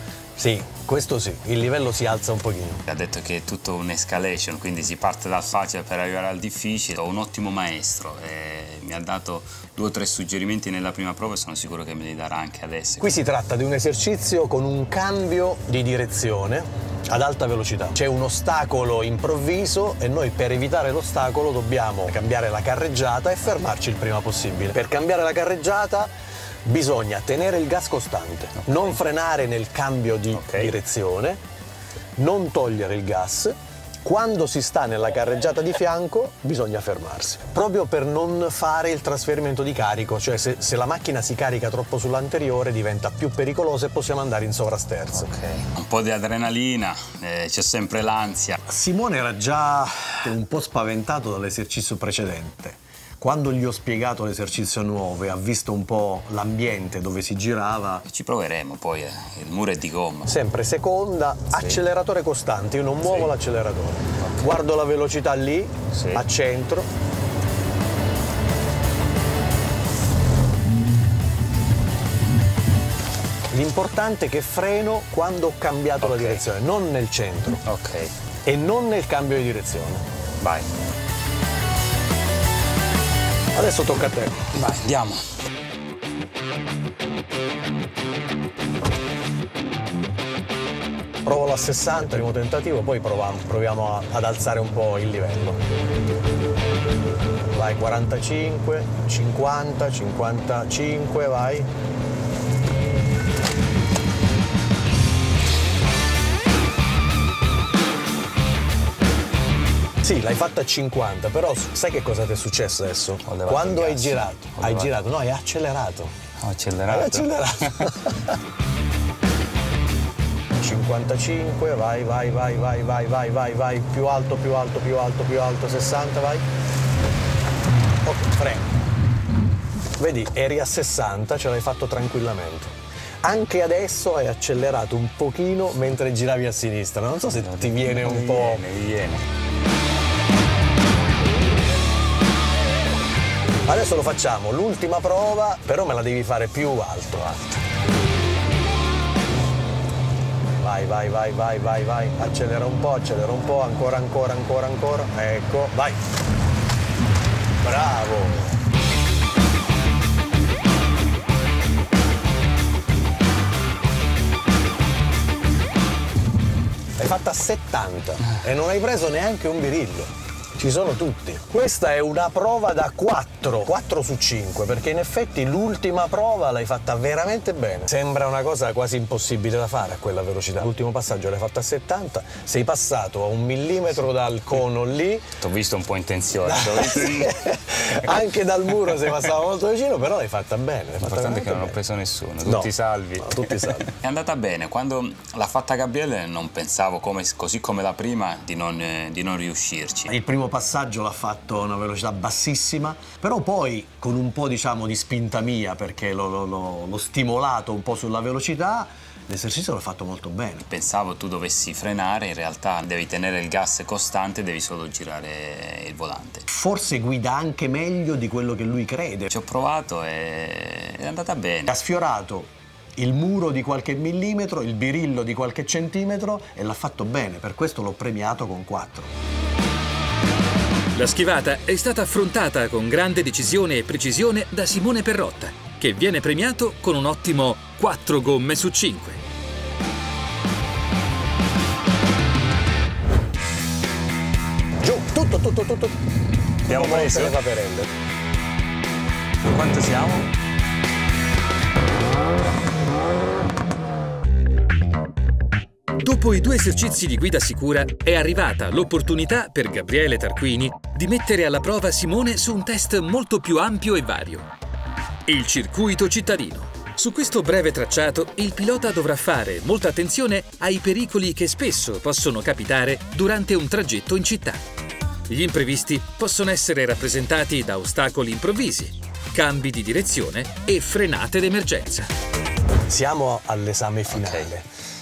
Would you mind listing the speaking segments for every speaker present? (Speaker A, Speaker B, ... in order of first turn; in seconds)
Speaker A: 0.4-2.9, 13.0-26.1, 26.6-31.4, 32.2-45.3, 48.6-58.0, 60.3-66.9, 73.5-77.6, 78.5-80.1, 83.5-84.5, 91.2-95.6, 97.5-101.7, 110.0-116.2, 116.9-118.4, 120.6-126.5, 128.0-128.8, 130.0-138.6, 143.7-147.5, 150.6-156.0, 157.6-158.6, 167.0-185.3, 186.4-191.8, 192.4-193.9, 200.1-210.7, 216.5-219.3, 221.7-229.1, 244.8-246.0, 246.7-247.9, 282.9-284.7
Speaker B: 2.9-13.1, 30.3-30.7, 45.1-48.6, 58.1-60.3, 63.1-63.3, 64.2-64.5, 65.9-66.2, 76.0-76.4, 77.7-78.1, 80.4-80.7, 84.5-85.2, 113.3-114.9, 116.4-117.9, 137.3-139.2, 185.4-188.1, 191.0-200.1, 210.7-216.5, 219.3-221.7, 246.7-247.4, 249.4-250.3, 284.1-284.5
Speaker C: 230.9-239.2, 256.0-264.5, 265.3-274.6, 275.3-282.1